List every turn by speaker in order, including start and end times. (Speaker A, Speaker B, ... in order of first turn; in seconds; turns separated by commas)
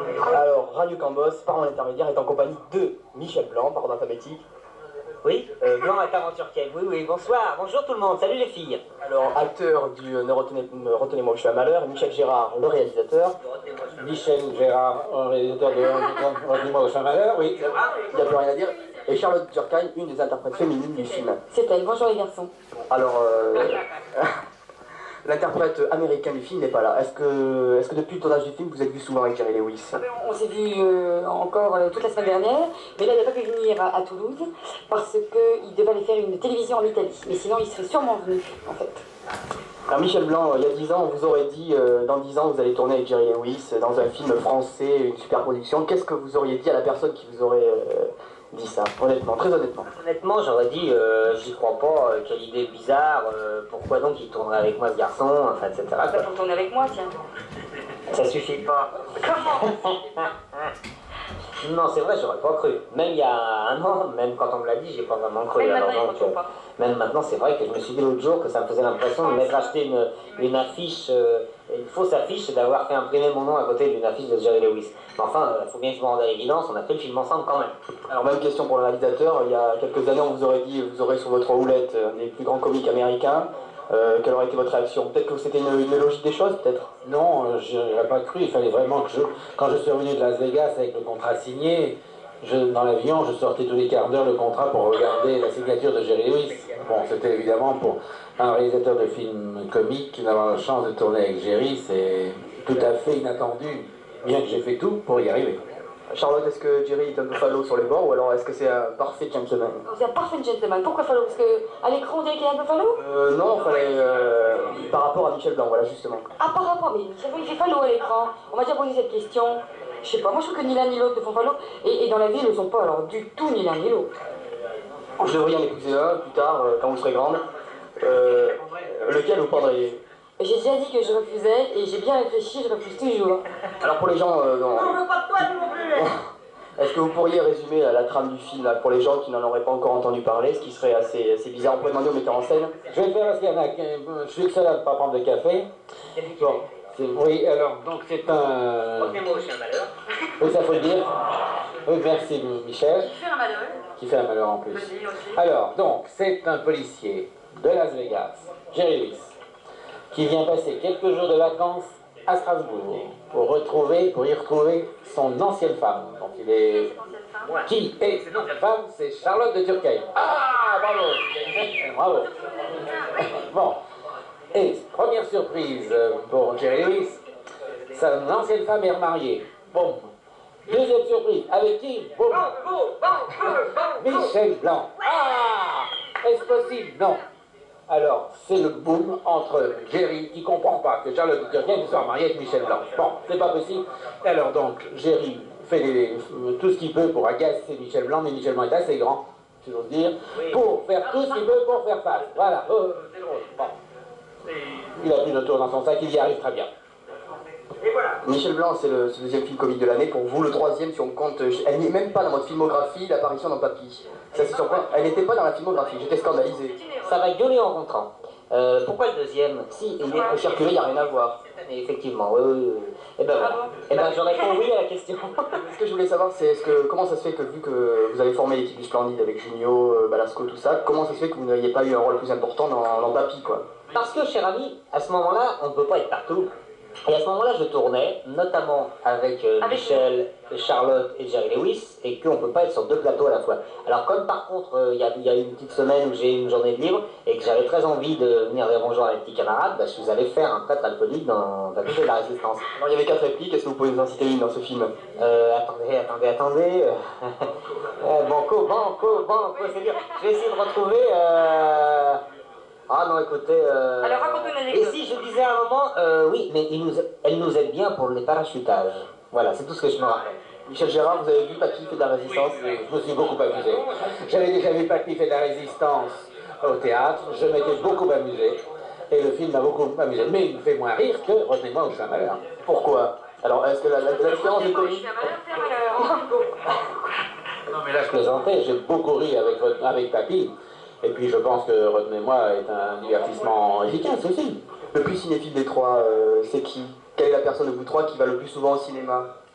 Speaker A: 0.2-4.4, Speaker B: 5.2-8.8, Speaker A: 9.0-13.3, Speaker C: 14.0-17.8, Speaker A: 18.1-21.4, Speaker D: 20.5-22.5, Speaker A: 22.9-24.3, Speaker A: 25.2-30.0, Speaker D: 29.9-39.0, Speaker A: 39.9-49.9, Speaker B: 50.0-56.3, Speaker D: 56.0-57.1, Speaker B: 58.1-60.7, Speaker D: 59.3-60.2, Speaker B: 61.6-77.7, Speaker D: 65.6-66.5, Speaker A: 78.1-86.9, Speaker C: 87.0-105.6, Speaker A: 106.1-109.8, Speaker D: 109.9-113.0, Speaker A: 113.0-116.3, Speaker D: 116.4-124.1, Speaker A: 125.2-127.4, Speaker A: 128.0-130.0, Speaker D: 130.4-133.4, Speaker A: 133.8-136.1, Speaker B: 135.1-135.9, Speaker A: 136.8-142.7, Speaker C: 142.9-145.7, Speaker B: 146.2-146.6, Speaker C: 146.4-149.2, Speaker B: 149.0-149.9, Speaker C: 150.4-151.1, Speaker C: 151.9-153.2, Speaker D: 153.1-153.8, Speaker C: 154.0-159.3, Speaker D: 154.7-155.4, Speaker C: 160.1-166.9, Speaker D: 166.9-167.4, Speaker C: 167.7-172.3, Speaker C: 173.2-173.8, Speaker C: 174.5-177.2, Speaker C: 177.9-180.1, Speaker C: 180.7-182.6, Speaker B: 182.6-184.1, Speaker C: 183.5-187.2, Speaker C: 187.9-203.7, Speaker C: 205.0-206.7, Speaker A: 208.2-216.8, Speaker D: 216.8-217.0, Speaker B: 217.0-225.4, Speaker D: 220.1-220.3, Speaker A: 220.2-221.3, Speaker D: 223.4-224.5, Speaker A: 225.7-233.6, Speaker B: 233.9-236.5, Speaker B: 237.1-252.6, Speaker D: 239.6-240.1, Speaker A: 252.8-254.9, Speaker B: 255.2-257.4, Speaker B: 258.0-262.2, Speaker B: 262.9-270.2, Speaker D: 264.0-264.9, Speaker A: 270.7-272.6, Speaker C: 272.6-282.4, Speaker A: 282.6-285.1, Speaker D: 284.2-286.9, Speaker C: 287.7-290.5, Speaker C: 291.0-294.6, Speaker A: 294.9-299.3